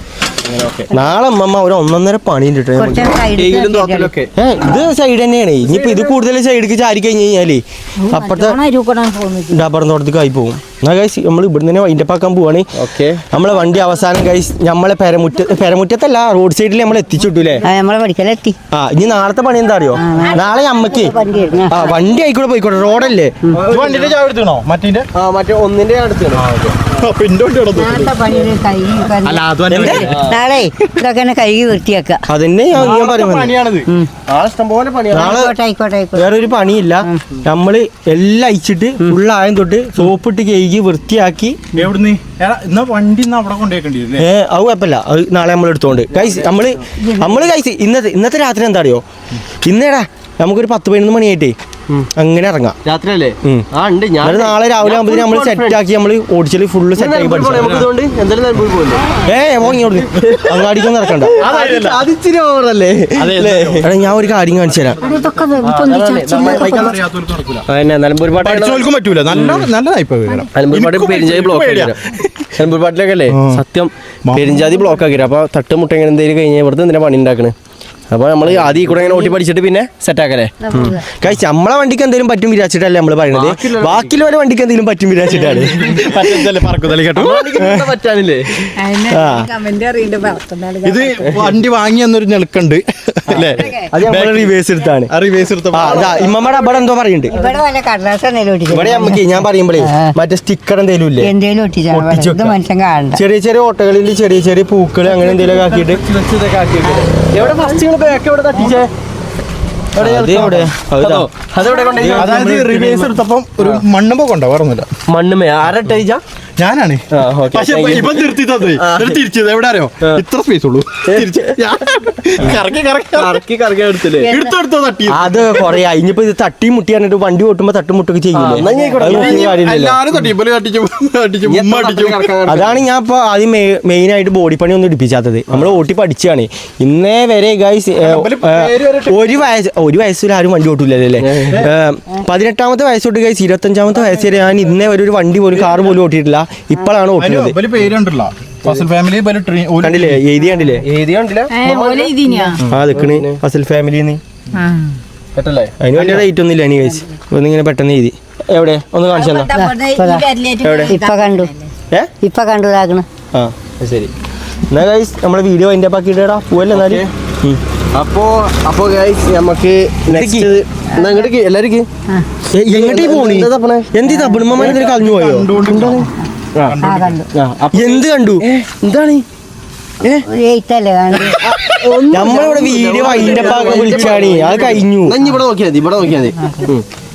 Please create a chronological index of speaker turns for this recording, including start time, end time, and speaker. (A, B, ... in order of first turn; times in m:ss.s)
0:00.4-0:01.0 A
0:00.9-0:03.1 B
0:02.8-0:04.1 C
0:03.3-0:04.3 A
0:04.3-0:08.6 B
0:05.6-0:06.1 A
0:08.0-0:09.6 D
0:09.5-0:12.7 B
0:12.7-0:13.2 A
0:13.3-0:17.6 B
0:17.6-0:18.6 C
0:18.7-0:21.1 B
0:20.0-0:22.0 C
0:20.1-0:20.9 D
0:21.7-0:23.4 B
0:23.6-0:24.1 A
0:23.6-0:25.1 E
0:25.1-0:26.4 A
0:26.3-0:28.3 E
0:27.7-0:32.2 C
0:29.2-0:30.3 E
0:29.7-0:30.1 B
0:30.1-0:30.4 A
0:32.3-0:33.5 B
0:32.7-0:33.9 E
0:34.3-0:35.4 A
0:35.1-0:35.5 B
0:35.1-0:36.4 C
0:36.1-0:41.8 B
0:41.7-0:44.3 E
0:44.2-0:49.0 B
0:46.1-0:46.8 A
0:47.0-0:47.4 C
0:49.6-0:51.5 B
0:52.2-0:52.8 B
0:52.8-0:55.8 A
0:54.2-0:57.9 B
0:57.0-0:59.0 A
0:57.6-0:57.9 E
0:59.2-1:01.4 B
1:00.2-1:03.9 A
1:01.3-1:02.0 E
1:03.2-1:05.5 E
1:03.8-1:05.0 B
1:05.0-1:07.0 D
1:05.6-1:07.0 A
1:06.3-1:07.7 E
1:07.7-1:09.6 A
1:08.4-1:11.9 E
1:10.5-1:12.0 A
1:12.6-1:17.5 A
1:13.3-1:13.6 E
1:14.3-1:15.0 E
1:18.1-1:20.5 A
1:20.6-1:21.0 C
1:20.7-1:26.4 B
1:23.3-1:24.1 A
1:25.3-1:26.1 A
1:25.6-1:27.4 E
1:27.1-1:28.7 A
1:27.2-1:27.9 B
1:28.8-1:31.3 D
1:29.1-1:29.5 B
1:30.8-1:34.6 E
1:33.3-1:33.7 A
1:33.3-1:35.1 B
1:35.1-1:36.3 E
1:35.7-1:37.3 B
1:35.7-1:36.6 A
1:37.3-1:40.1 C
1:38.7-1:41.3 B
1:41.2-1:43.2 C
1:41.9-1:42.6 B
1:43.1-1:46.0 B
1:45.1-1:46.9 E
1:46.1-1:48.9 A
1:48.6-1:48.9 B
1:50.0-1:53.8 A
1:50.0-1:51.3 B
1:50.2-1:50.6 E
1:51.9-1:52.6 B
1:52.1-1:54.9 E
1:55.1-1:56.2 A
1:56.6-2:03.4 E
1:57.1-1:59.2 A
2:01.1-2:01.5 A
2:03.1-2:04.3 A
2:04.2-2:04.5 C
2:04.2-2:05.8 E
2:05.1-2:10.0 B
2:08.3-2:09.6 A
2:08.7-2:09.0 C
2:09.0-2:12.3 E
2:11.4-2:12.8 A
2:12.4-2:27.6 B
2:18.0-2:19.3 E
2:21.2-2:21.7 A
2:27.2-2:30.2 E
2:29.8-2:30.8 B
2:30.8-2:32.1 A
2:31.5-2:32.6 D
2:32.7-2:34.2 B
2:32.9-2:33.4 A
2:34.5-2:35.0 D
2:35.4-2:36.2 A
2:35.8-2:39.5 B
2:39.1-2:41.7 D
2:39.5-2:40.2 C
2:40.6-2:41.0 B
2:40.9-2:41.5 C
2:42.2-2:43.0 C
2:43.8-2:44.1 A
2:44.7-2:47.6 B
2:46.7-2:47.1 A
2:47.9-2:51.9 A
2:50.1-2:50.5 B
2:50.9-2:51.3 C
2:52.5-2:55.5 B
2:52.7-2:53.9 A
2:54.0-2:54.6 C
2:54.6-2:56.1 E
2:55.6-2:56.8 A
2:56.6-2:57.2 E
2:56.8-2:57.3 C
2:57.3-2:59.2 A
2:57.7-2:58.4 B
3:00.2-3:01.5 C
3:01.4-3:06.8 A
3:02.1-3:05.2 B
3:03.0-3:04.3 E
3:06.4-3:06.7 C